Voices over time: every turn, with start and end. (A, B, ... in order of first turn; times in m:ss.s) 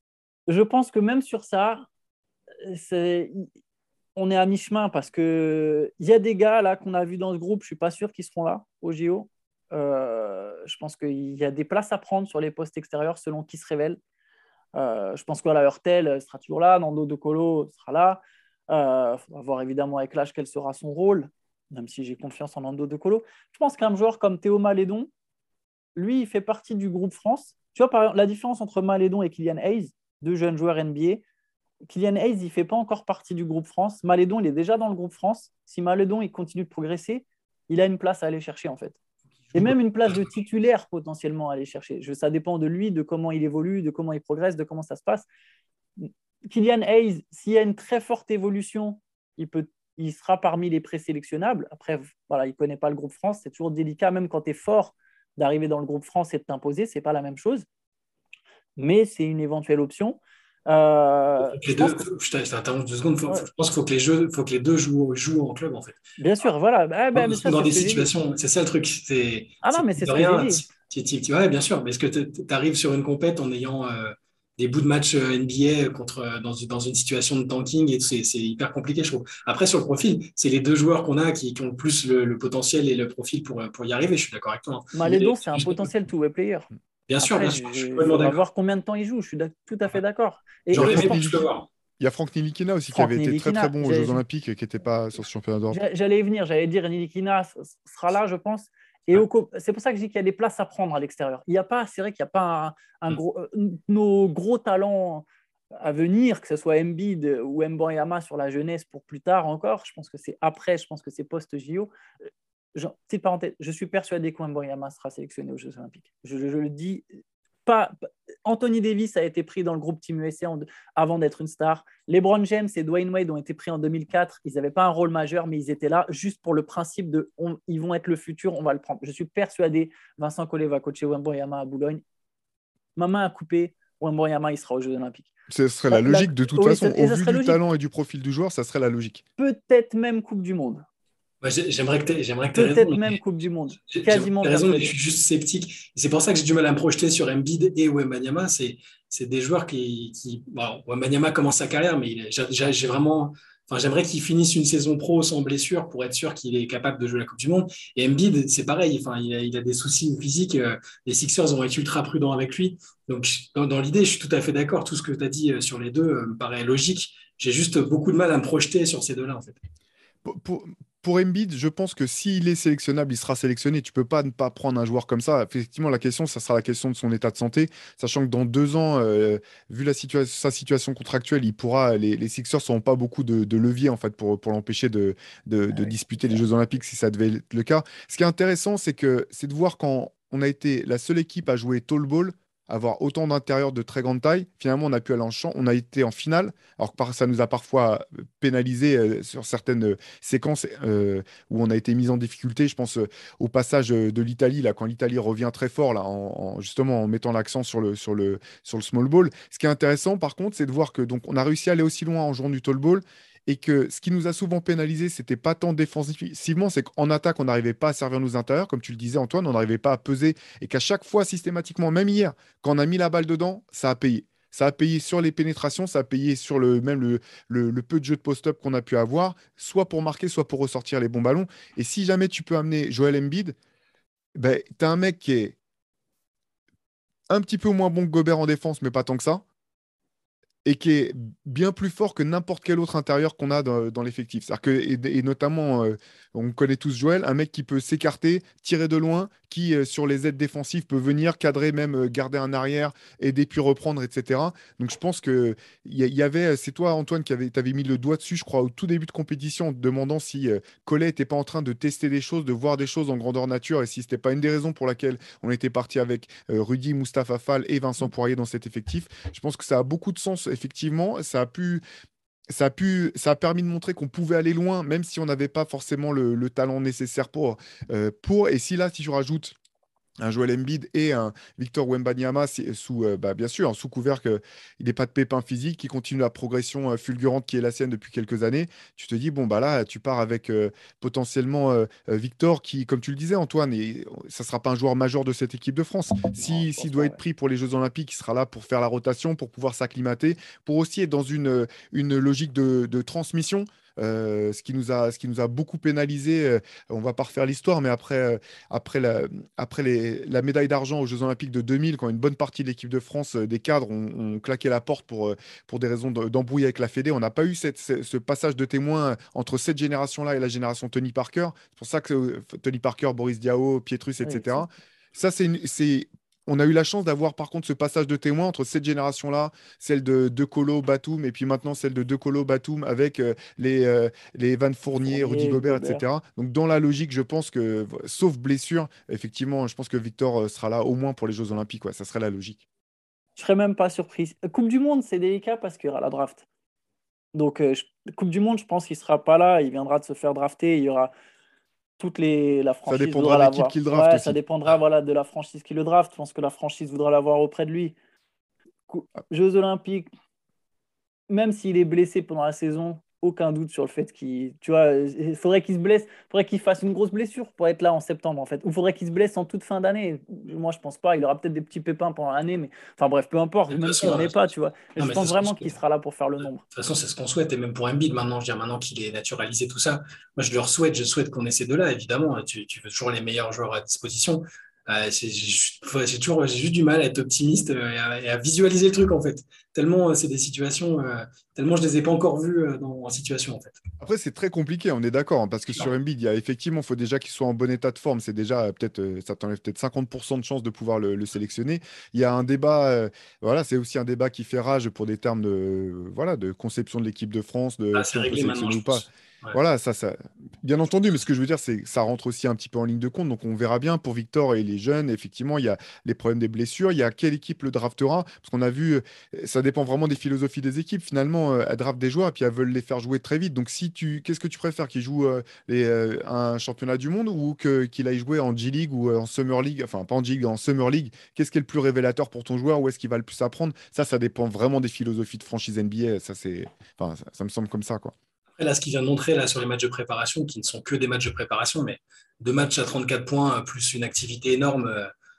0:00.5-0:01.9 A
0:02.6-0:03.5 A
0:04.2-0:14.0 A
0:14.8-0:25.1 A
0:26.0-0:31.2 A
0:31.9-0:39.0 A
0:39.5-0:45.2 A
0:46.0-0:57.6 A
0:58.8-1:02.0 A
1:01.4-1:06.0 B
1:06.2-1:08.1 A
1:07.1-1:25.9 B
1:09.6-1:10.6 A
1:24.9-1:26.7 A
1:27.1-1:28.4 B
1:27.2-1:31.3 A
1:30.7-1:31.7 B
1:30.7-1:31.5 C
1:32.0-1:35.8 C
1:32.9-1:34.2 A
1:35.7-1:45.2 A
1:45.8-1:51.9 A
1:52.7-1:57.0 A
1:57.6-2:12.0 A
2:13.0-2:15.3 A
2:15.5-2:19.2 C
2:15.9-2:17.6 A
2:19.4-2:20.8 A
2:21.4-2:23.2 B
2:22.6-2:24.9 A
2:23.9-2:49.6 B
2:50.2-3:53.6 C
3:54.3-3:55.6 C
3:57.3-3:59.4 C
4:00.6-4:31.8 C
4:32.5-4:39.5 C
4:40.2-5:42.6 C
4:56.4-4:57.2 A
5:24.2-5:24.6 A
5:35.0-5:36.0 A
5:43.4-5:46.4 A
5:47.3-5:51.1 A
5:52.0-5:57.9 A
5:52.9-5:54.4 C
5:58.9-6:00.1 A
6:01.3-6:16.6 A
6:13.7-6:14.4 B
6:15.0-6:15.7 B
6:16.7-6:33.8 B
6:34.0-7:18.1 C
6:47.9-6:49.6 B
7:18.6-7:25.1 B